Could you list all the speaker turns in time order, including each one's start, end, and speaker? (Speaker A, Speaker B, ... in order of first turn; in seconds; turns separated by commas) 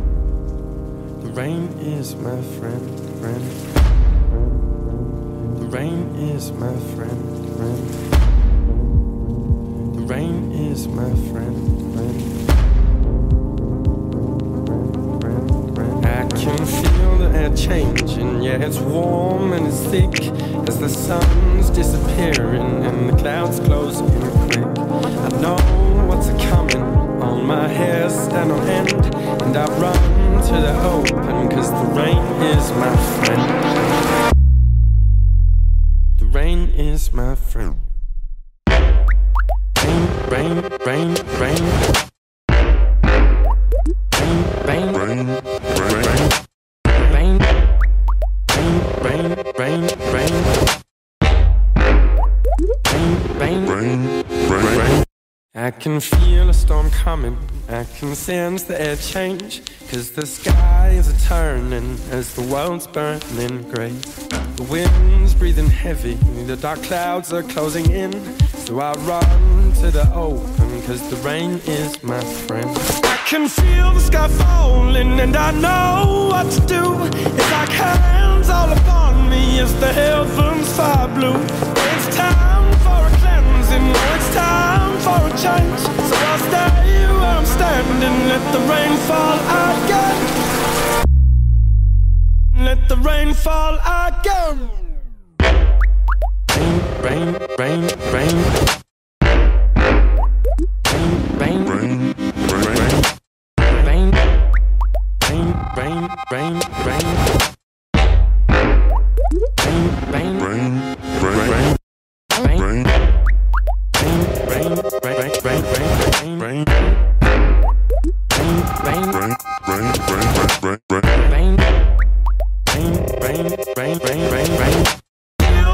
Speaker A: 1.2-3.8, Speaker A: 4.5-8.1, Speaker A: 9.8-12.4, Speaker A: 15.8-33.7, Speaker A: 36.2-37.9, Speaker A: 39.8-41.9, Speaker A: 44.3-45.4, Speaker A: 47.0-47.5, Speaker A: 48.5-50.6, Speaker A: 52.9-55.0, Speaker A: 55.5-90.5, Speaker A: 92.5-94.9, Speaker A: 96.5-98.6, Speaker A: 100.9-102.2, Speaker A: 105.2-107.2, Speaker A: 109.7-111.7, Speaker A: 112.4-112.9, Speaker A: 114.0-117.0, Speaker A: 118.5-119.3, Speaker A: 121.0-121.6, Speaker A: 122.7-124.9